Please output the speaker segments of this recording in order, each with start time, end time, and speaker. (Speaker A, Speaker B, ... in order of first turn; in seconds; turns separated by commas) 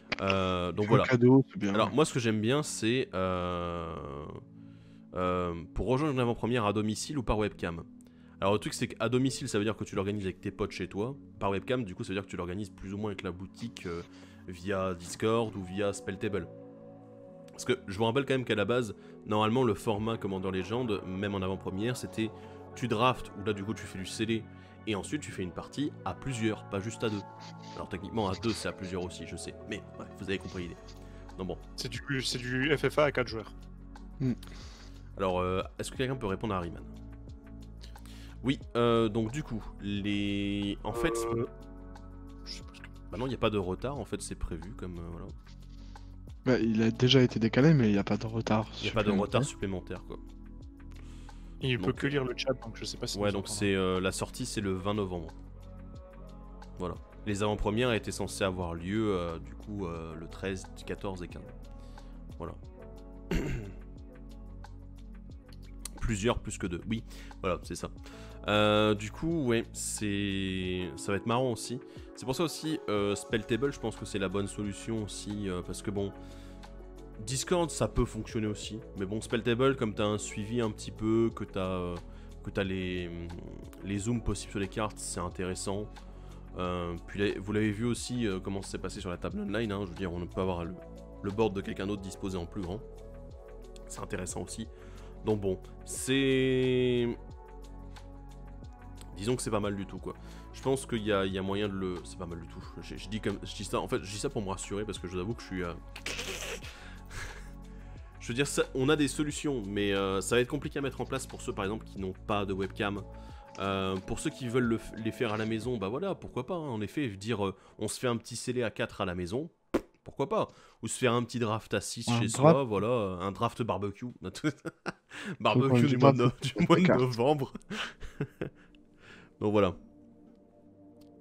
Speaker A: 0.2-1.1, Speaker B: 0.9-1.9, Speaker A: 1.7-4.4, Speaker A: 5.1-7.9, Speaker A: 8.4-16.5, Speaker A: 17.6-30.8, Speaker C: 31.8-33.5, Speaker A: 35.2-36.9, Speaker A: 38.4-41.4, Speaker C: 40.9-41.5, Speaker C: 42.5-42.8, Speaker A: 43.1-45.4, Speaker B: 46.5-49.5, Speaker A: 48.8-50.2, Speaker C: 51.6-53.7, Speaker A: 51.8-52.1, Speaker A: 53.1-55.4, Speaker A: 56.8-61.6, Speaker A: 63.3-63.7, Speaker A: 66.0-76.2, Speaker A: 77.2-85.9, Speaker A: 86.5-92.8, Speaker A: 93.9-94.7, Speaker A: 95.2-97.2, Speaker A: 99.1-107.4, Speaker A: 108.2-113.1, Speaker A: 113.6-128.5, Speaker B: 122.1-122.6, Speaker B: 125.5-127.1, Speaker A: 129.4-129.8